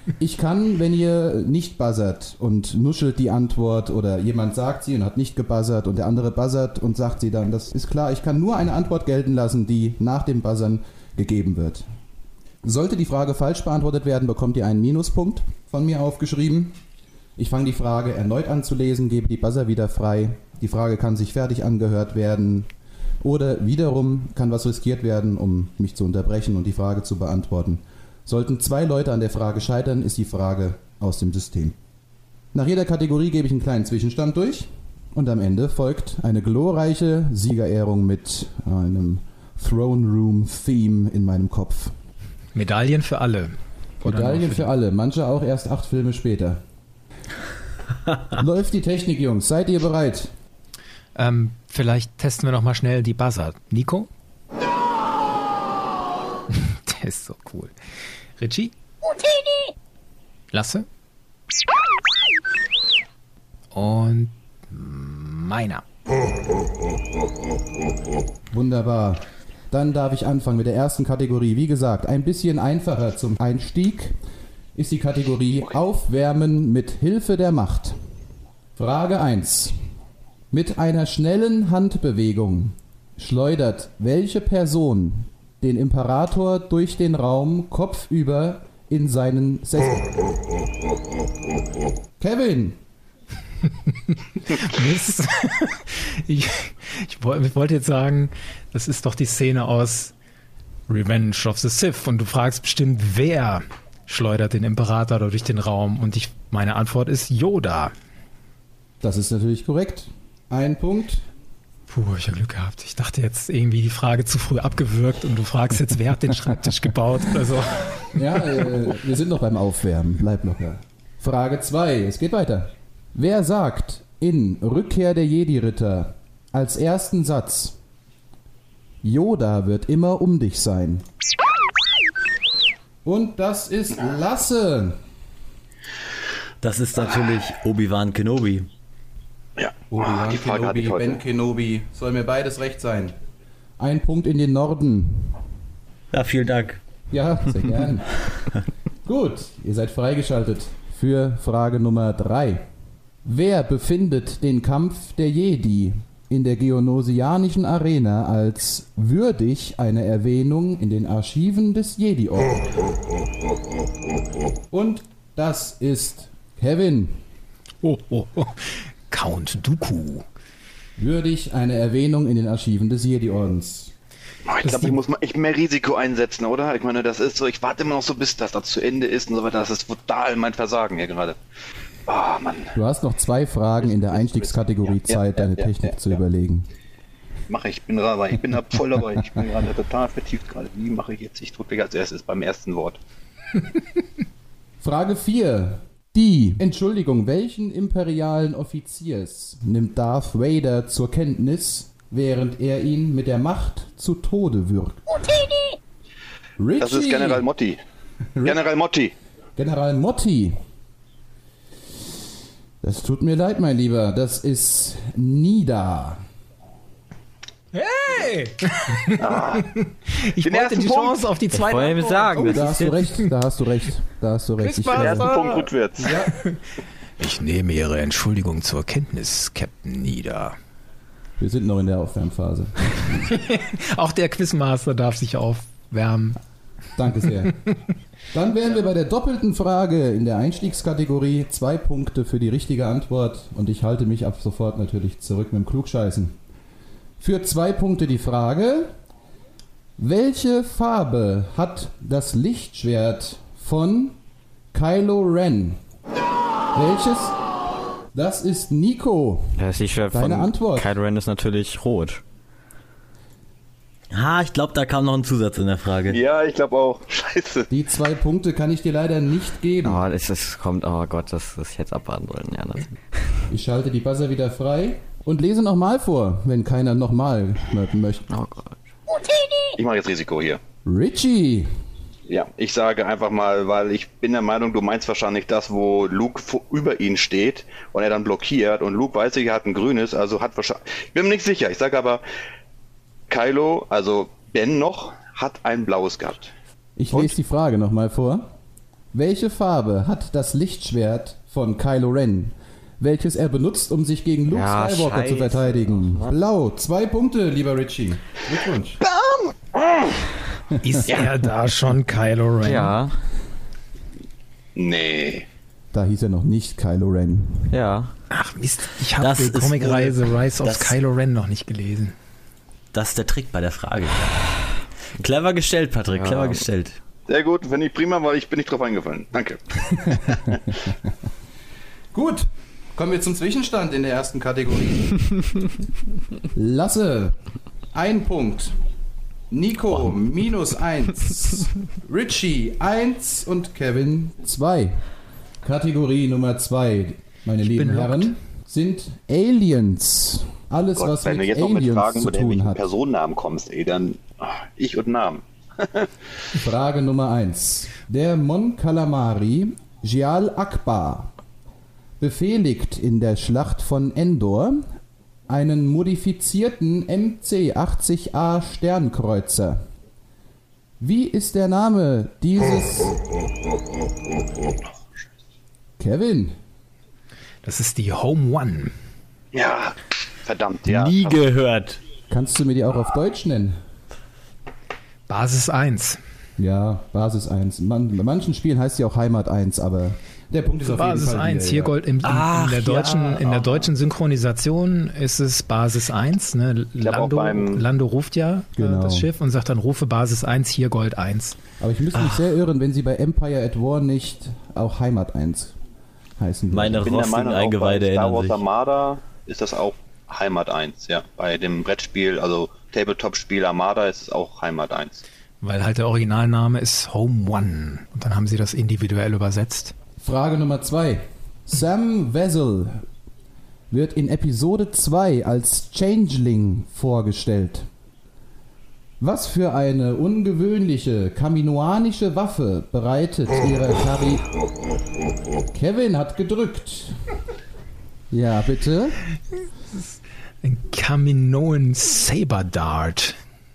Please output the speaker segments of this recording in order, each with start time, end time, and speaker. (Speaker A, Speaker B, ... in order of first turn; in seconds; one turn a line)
Speaker A: 0.2-11.8
Speaker A: 12.6-16.8
Speaker A: 17.4-22.7
Speaker A: 23.2-31.8
Speaker A: 32.5-41.9
Speaker B: 42.5-44.7
Speaker A: 44.0-46.6
Speaker A: 48.3-50.3
Speaker B: 51.1-54.1
Speaker B: 56.5-57.7
Speaker B: 58.4-58.7
Speaker B: 60.5-60.9
Speaker B: 63.7-65.8
Speaker A: 68.5-74.2
Speaker A: 74.8-78.0
Speaker A: 78.8-79.8
Speaker A: 80.5-90.2
Speaker A: 92.2-92.8
Speaker B: 93.9-100.1
Speaker B: 100.9-107.9
Speaker A: 109.0-111.2
Speaker B: 111.9-118.7
Speaker A: 118.1-127.8
Speaker A: 129.0-131.0
Speaker A: 133.0-135.0
Speaker C: 136.6-138.7
Speaker D: 139.6-141.2
Speaker A: 139.9-143.2
Speaker A: 143.8-145.4
Speaker C: 146.1-146.8
Speaker A: 147.1-148.2
Speaker A: 149.0-152.6
Speaker A: 153.2-162.7
Speaker A: 164.7-167.2
Speaker B: 167.8-170.2
Speaker A: 171.0-173.9
Speaker D: 174.5-181.4
Speaker B: 174.6-175.0
Speaker D: 182.1-182.8
Speaker A: 182.7-186.7
Speaker D: 183.8-186.2
Speaker D: 187.5-193.0
Speaker A: 194.8-205.2
Speaker A: 206.6-207.4
Speaker D: 206.8-207.8
Speaker D: 208.4-209.1
Speaker A: 209.6-210.6
Speaker A: 212.8-216.2
Speaker B: 217.7-223.3
Speaker D: 219.2-219.7
Speaker D: 220.4-221.2
Speaker E: 221.5-223.1
Speaker A: 222.4-225.3
Speaker B: 224.6-226.6
Speaker D: 224.9-226.2
Speaker A: 226.0-226.3
Speaker B: 227.2-230.6
Speaker A: 231.4-233.2
Speaker B: 233.2-236.4
Speaker A: 237.0-237.6
Speaker A: 238.3-246.4
Speaker A: 247.2-248.9
Speaker A: 250.0-254.2
Speaker A: 254.7-255.8
Speaker A: 256.7-257.4
Speaker A: 258.1-260.9
Speaker E: 259.6-262.2
Speaker C: 264.1-266.2
Speaker D: 266.1-267.7
Speaker A: 267.7-270.0
Speaker E: 269.8-273.4
Speaker A: 273.5-278.4
Speaker E: 278.3-278.8
Speaker D: 279.7-280.6
Speaker A: 280.8-281.7
Speaker D: 282.3-292.2
Speaker D: 293.3-296.5
Speaker A: 297.0-298.5
Speaker A: 299.1-309.0
Speaker E: 304.5-306.3
Speaker D: 309.1-310.3
Speaker B: 310.8-312.9
Speaker E: 312.6-313.1
Speaker D: 314.8-315.5
Speaker A: 315.9-317.7
Speaker E: 317.7-318.1
Speaker B: 318.3-322.1
Speaker C: 319.2-320.9
Speaker C: 322.9-324.6
Speaker C: 325.2-327.0
Speaker E: 326.1-326.6
Speaker D: 327.3-330.6
Speaker A: 330.0-330.9
Speaker A: 332.1-335.3
Speaker A: 336.5-337.4
Speaker A: 337.9-338.8
Speaker A: 339.5-345.1
Speaker A: 345.6-352.8
Speaker B: 347.6-348.3
Speaker D: 351.0-356.1
Speaker A: 356.5-361.3
Speaker A: 362.2-364.9
Speaker A: 365.5-369.8
Speaker A: 371.0-373.1
Speaker A: 376.0-376.6
Speaker B: 377.6-378.9
Speaker D: 379.5-381.4
Speaker C: 380.9-382.0
Speaker A: 382.3-383.8
Speaker B: 385.3-386.2
Speaker A: 386.6-391.9
Speaker B: 390.8-401.6
Speaker C: 392.2-393.4
Speaker D: 393.0-393.7
Speaker D: 397.0-397.9
Speaker A: 398.8-399.3
Speaker A: 401.8-405.8
Speaker A: 406.4-407.1
Speaker C: 406.7-408.6
Speaker D: 407.0-415.2
Speaker B: 415.6-419.9
Speaker A: 420.2-423.0
Speaker A: 423.9-427.9
Speaker A: 429.2-434.4
Speaker A: 435.7-437.2
Speaker A: 438.3-439.2
Speaker B: 440.6-443.4